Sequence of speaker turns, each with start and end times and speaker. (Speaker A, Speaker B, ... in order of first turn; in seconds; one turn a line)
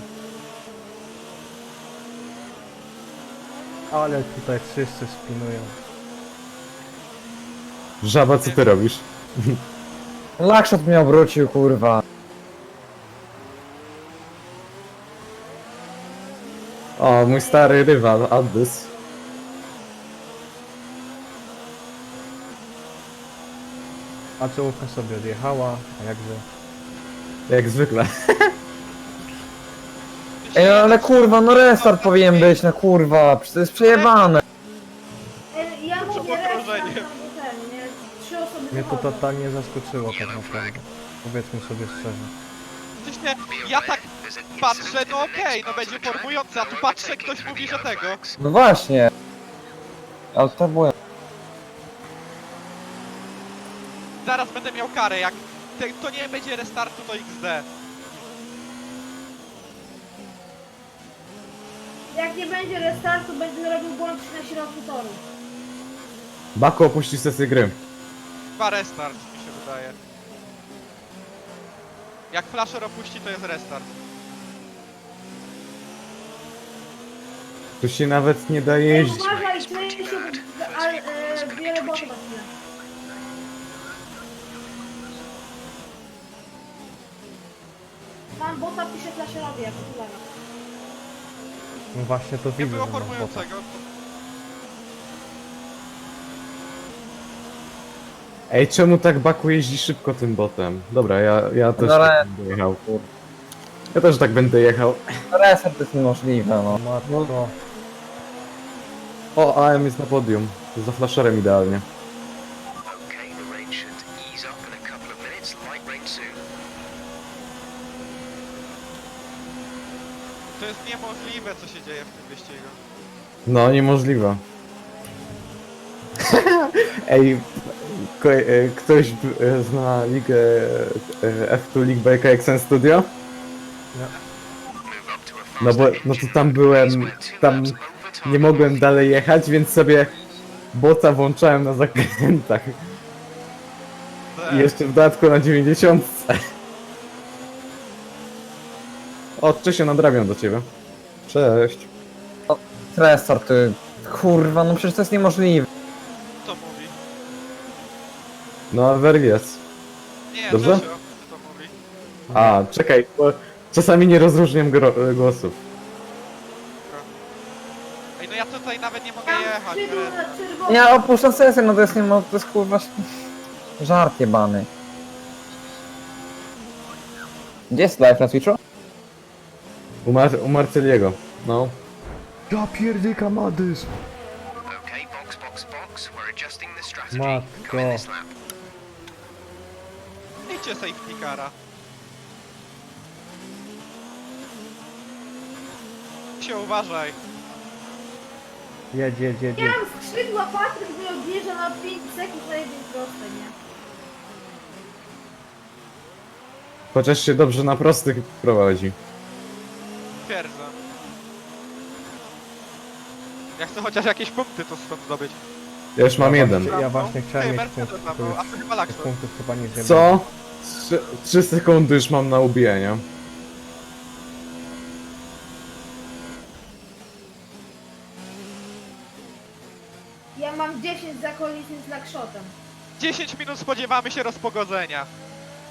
Speaker A: 3.9-5.7
Speaker B: 8.0-9.6
Speaker C: 10.4-12.0
Speaker B: 17.0-18.9
Speaker D: 17.4-17.8
Speaker A: 24.4-26.4
Speaker B: 27.5-28.5
Speaker E: 30.4-32.6
Speaker C: 30.5-34.4
Speaker D: 35.5-39.2
Speaker E: 36.0-37.0
Speaker A: 38.7-42.3
Speaker F: 40.1-40.8
Speaker E: 43.0-44.0
Speaker F: 43.5-48.4
Speaker E: 44.6-48.2
Speaker C: 48.4-49.1
Speaker C: 50.3-50.9
Speaker E: 54.2-57.6
Speaker D: 62.1-65.2
Speaker B: 66.5-67.8
Speaker E: 68.6-69.9
Speaker E: 72.3-73.8
Speaker B: 77.8-79.4
Speaker D: 78.9-82.5
Speaker F: 79.0-82.1
Speaker D: 88.4-90.2
Speaker A: 91.9-93.5
Speaker E: 92.6-93.8
Speaker B: 98.5-102.8
Speaker C: 101.8-102.2
Speaker B: 103.9-105.0
Speaker C: 105.3-106.8
Speaker A: 106.7-107.5
Speaker B: 109.3-111.8
Speaker F: 112.9-116.4
Speaker E: 120.6-122.8
Speaker B: 123.5-124.4
Speaker B: 126.2-133.1
Speaker F: 134.8-138.7
Speaker B: 135.6-140.1
Speaker B: 140.7-142.7
Speaker E: 144.3-144.7
Speaker B: 144.5-146.4
Speaker B: 149.4-150.7
Speaker B: 151.3-151.9
Speaker C: 152.5-155.7
Speaker E: 156.4-156.9
Speaker B: 158.7-159.6
Speaker E: 160.3-161.7
Speaker B: 160.5-160.8
Speaker A: 162.3-162.6
Speaker B: 162.3-165.6
Speaker E: 168.2-170.2
Speaker D: 169.3-171.1
Speaker C: 170.7-172.9
Speaker C: 173.8-174.7
Speaker C: 177.7-178.6
Speaker B: 180.0-181.8
Speaker A: 182.5-183.9
Speaker F: 184.7-188.3
Speaker A: 187.1-188.1
Speaker E: 190.5-191.5
Speaker E: 196.4-197.2
Speaker A: 198.9-199.8
Speaker D: 199.6-203.5
Speaker B: 206.9-208.9
Speaker E: 210.2-210.7
Speaker E: 213.6-215.4
Speaker B: 215.9-216.7
Speaker A: 216.2-220.2
Speaker E: 216.5-219.1
Speaker B: 219.7-223.0
Speaker D: 230.3-232.5
Speaker E: 233.0-235.1